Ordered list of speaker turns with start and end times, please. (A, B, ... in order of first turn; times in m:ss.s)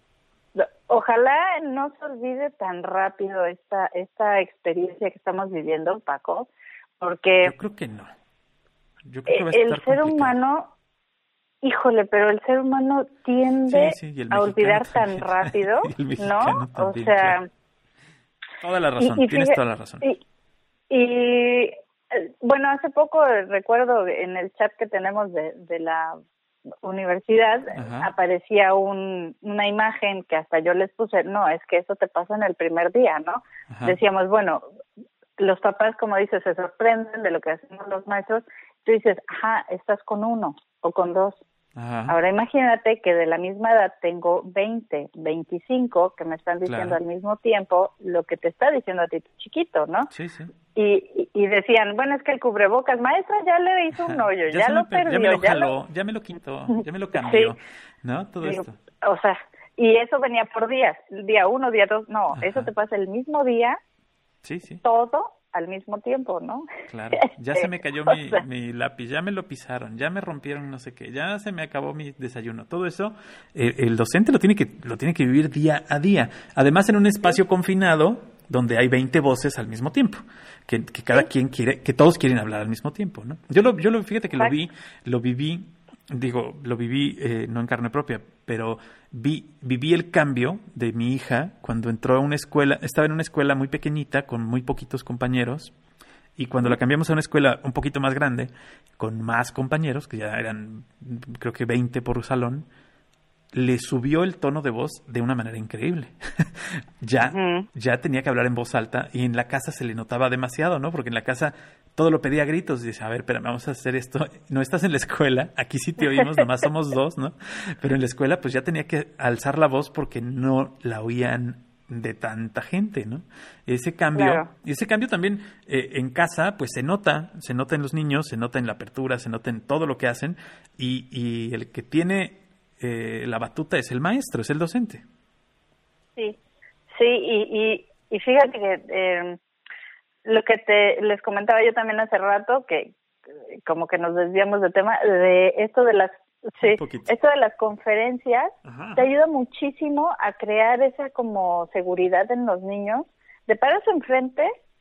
0:00.6-0:07.5 A
0:07.4-0:08.1 B
0:09.0-0:10.4 B
0:09.3-0:10.7 A
0:11.6-0:17.5 A
0:13.7-0:17.4 B
0:18.6-0:20.1 B
0:19.0-0:20.2 A
0:20.9-0:26.2 A
0:26.8-0:34.6 A
0:27.8-0:28.1 B
0:33.7-0:34.0 B
0:35.4-0:41.4 A
0:41.8-0:42.2 B
0:42.1-0:50.1 A
0:46.6-0:47.0 B
0:50.1-0:50.5 B
0:50.7-0:55.7 A
0:54.1-0:58.8 B
0:56.7-0:57.5 A
0:58.4-1:03.8 A
1:02.3-1:02.7 B
1:04.4-1:04.8 B
1:04.8-1:08.4 A
1:06.9-1:35.7 B
1:36.4-1:42.7 B
1:43.5-2:15.0 B
1:47.3-1:47.7 A
2:04.2-2:04.5 A
2:17.0-2:19.4 A
2:20.2-2:23.0 A
2:23.6-2:34.5 A
2:26.6-2:27.1 B
2:28.6-2:29.1 B